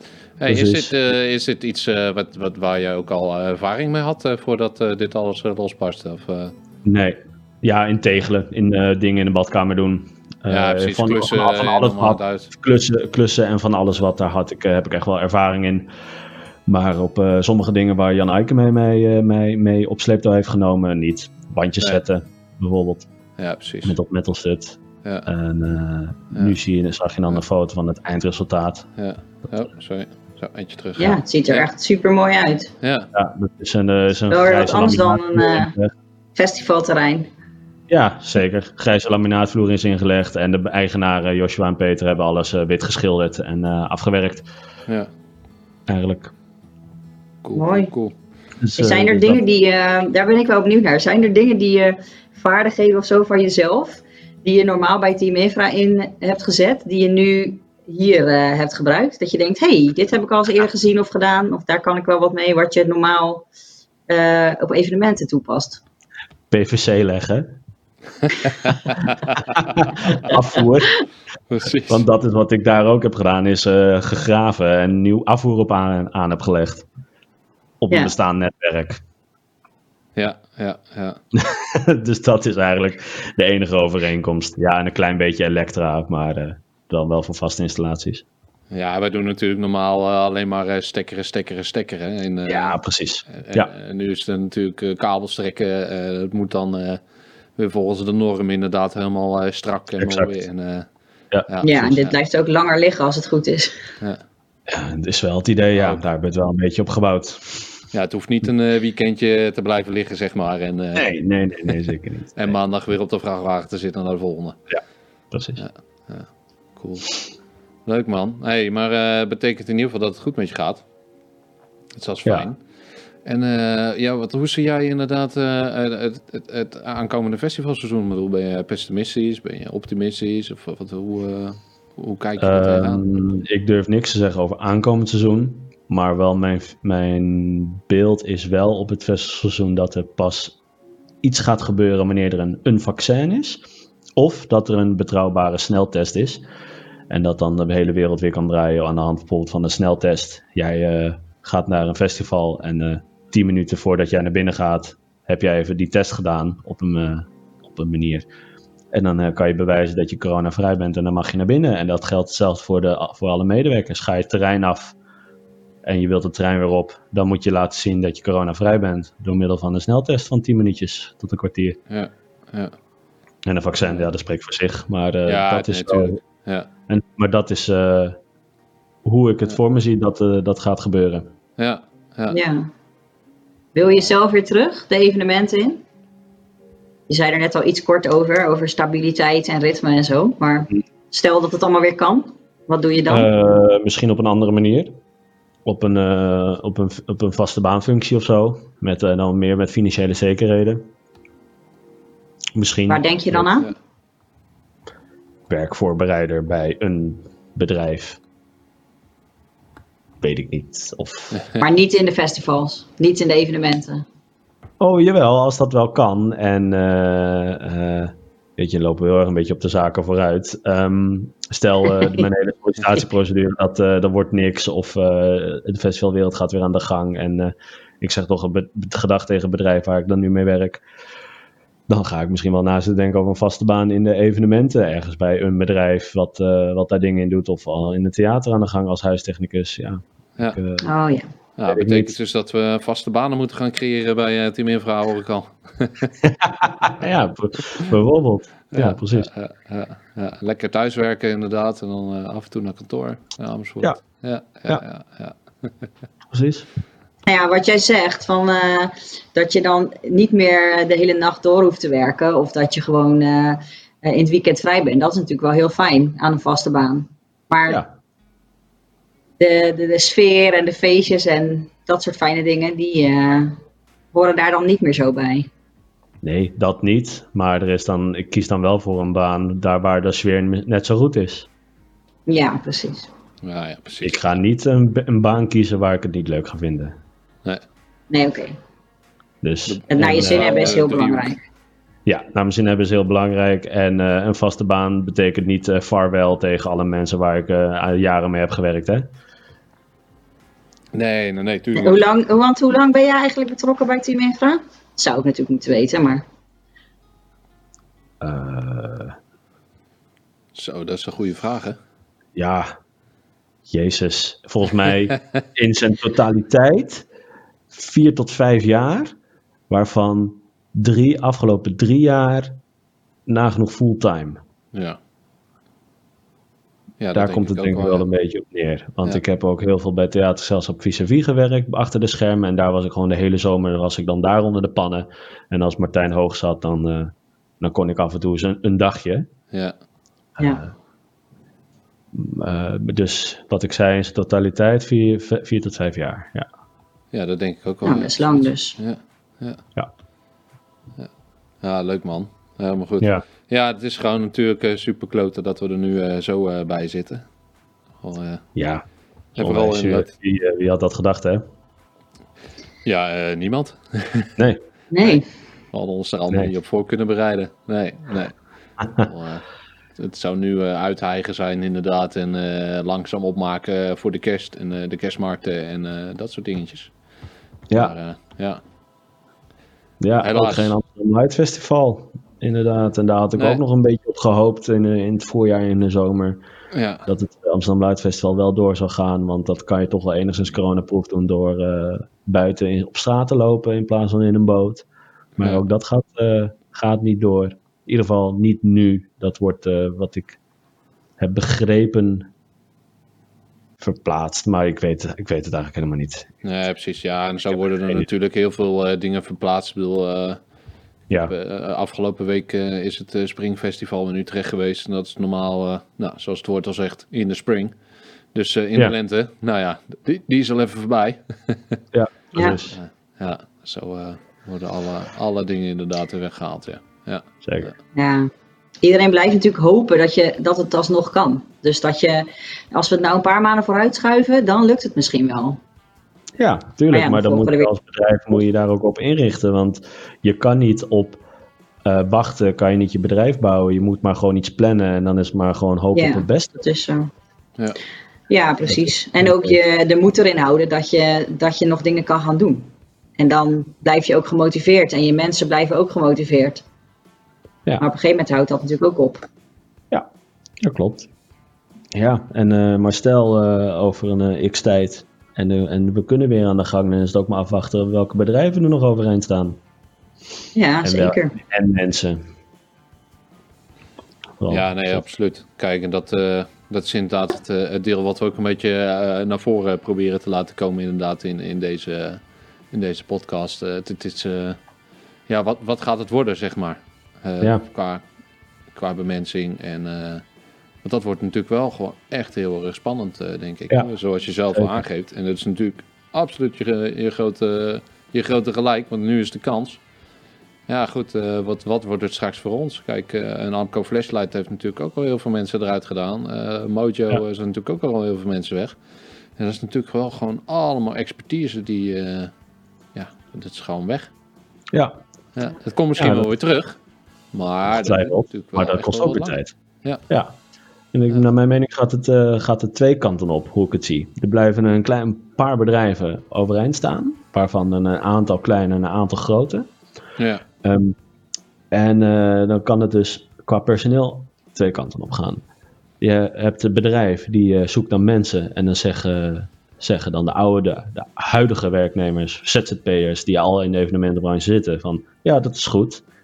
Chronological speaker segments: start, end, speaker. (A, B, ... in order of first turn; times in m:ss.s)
0:00.4-0:06.5 A
0:00.5-0:00.9 B
0:06.8-0:15.9 B
0:10.5-0:12.5 A
0:16.7-0:23.1 B
0:23.4-0:24.0 A
0:23.8-0:28.9 B
0:29.0-0:31.7 A
0:31.0-0:32.7 C
0:32.8-0:33.1 A
0:33.1-0:35.9 B
0:34.3-0:35.7 C
0:36.4-0:37.3 C
0:37.9-0:44.5 B
0:45.9-0:46.3 B
0:47.4-0:48.1 A
0:47.6-0:47.9 C
0:48.6-0:49.4 B
0:48.8-1:03.5 C
1:04.1-1:05.8 C
1:06.5-1:07.6 B
1:08.6-1:09.4 A
1:09.6-1:11.0 B
1:11.5-1:12.0 A
1:11.9-1:16.8 B
1:17.8-1:19.0 B
1:20.2-1:21.2 A
1:21.3-1:28.2 B
1:28.7-1:32.8 A
1:32.5-1:33.7 B
1:33.3-1:37.0 A
1:37.6-1:40.9 A
1:40.0-1:40.3 B
1:41.5-1:42.1 A
1:41.6-1:43.8 C
1:44.7-1:47.7 B
1:45.8-1:46.0 A
1:47.9-1:51.1 A
1:51.0-1:52.6 B
1:52.4-1:54.6 A
1:54.7-1:55.6 B
1:55.6-1:57.2 A
1:57.9-2:00.8 A
2:02.0-2:02.6 A
2:03.2-2:13.0 A
2:12.4-2:20.6 B
2:21.2-2:23.6 B
2:24.2-2:26.4 B
2:27.1-2:38.3 B
2:38.9-2:45.0 B
2:45.8-2:51.8 B
2:51.9-2:52.7 A
2:53.4-2:56.2 B
2:55.3-2:56.7 A
2:56.9-2:58.2 B
2:59.0-3:01.3 B
3:01.6-3:02.4 A
3:02.3-3:02.7 C
3:03.8-3:05.8 C
3:07.1-3:13.3 C
3:13.1-3:14.9 B
3:15.7-3:20.9 B
3:22.6-3:23.5 B
3:22.9-3:23.7 C
3:25.5-3:28.2 B
3:30.2-3:31.4 B
3:31.6-3:34.0 C
3:34.8-3:50.8 B
3:51.9-4:00.8 B
4:00.8-4:01.3 C
4:01.6-4:06.1 A
4:01.7-4:02.2 B
4:06.4-4:09.3 B
4:08.7-4:15.8 A
4:16.3-4:16.7 B
4:17.3-4:27.8 C
4:29.4-4:33.6 C
4:34.1-4:35.5 C
4:36.2-4:41.5 B
4:42.3-4:43.1 C
4:43.4-4:44.2 A
4:44.0-4:47.0 B
4:48.1-4:48.6 C
4:49.4-4:50.7 B
4:49.7-4:51.4 A
4:49.9-4:51.4 C
4:52.1-4:59.1 B
5:00.9-5:02.1 A
5:01.8-5:06.2 C
5:08.2-5:09.2 B
5:10.6-5:11.8 A
5:12.4-5:12.7 B
5:13.7-5:17.1 B
5:17.7-5:19.1 B
5:19.7-5:22.6 B
5:23.3-5:24.4 B
5:24.7-5:25.0 A
5:27.0-5:28.0 A
5:27.2-5:39.3 B
5:40.4-5:40.7 B
5:42.1-5:46.5 B
5:47.1-5:49.6 A
5:47.8-5:48.8 C
5:51.6-5:57.2 A
5:58.0-5:58.4 A
5:58.6-5:58.8 B
5:59.4-6:00.1 A
5:59.4-6:01.4 B
6:02.8-6:04.3 A
6:04.4-6:04.6 B
6:04.9-6:05.2 C
6:05.7-6:09.4 A
6:10.0-6:16.9 A
6:17.7-6:18.6 A
6:20.0-6:26.4 B
6:20.2-6:20.7 A
6:26.7-6:27.1 A
6:27.1-6:34.8 B
6:35.4-6:40.4 B
6:41.2-6:42.3 B
6:43.8-6:46.3 B
6:46.4-6:50.4 A
6:51.3-6:57.7 A
6:58.3-7:01.8 A
7:01.9-7:02.8 B
7:02.3-7:02.6 C
7:02.7-7:07.7 A
7:07.4-7:07.7 B
7:08.0-7:08.3 C
7:08.8-7:15.6 C
7:16.4-7:21.2 B
7:16.9-7:17.7 C
7:21.8-7:26.6 B
7:25.9-7:27.1 C
7:28.3-7:36.6 C
7:29.2-7:29.6 B
7:37.8-7:39.3 C
7:40.6-7:41.1 B
7:41.9-7:49.6 B
7:50.6-7:51.4 C
7:50.8-7:52.2 B
7:54.4-7:55.0 B
7:54.5-8:04.6 A
8:05.3-8:08.0 A
8:08.7-8:10.2 A
8:10.8-8:19.8 A
8:14.5-8:14.8 B
8:20.7-8:28.8 A
8:29.4-8:32.3 A
8:32.9-8:34.1 A
8:34.7-8:35.0 B
8:35.4-8:36.8 A
8:36.0-8:36.3 B
8:37.3-8:40.0 A
8:37.7-8:39.5 B
8:40.1-8:40.4 B
8:40.9-8:49.7 B
8:50.2-8:50.4 A
8:50.6-8:51.0 B
8:51.7-8:55.4 B
8:56.0-9:06.0 B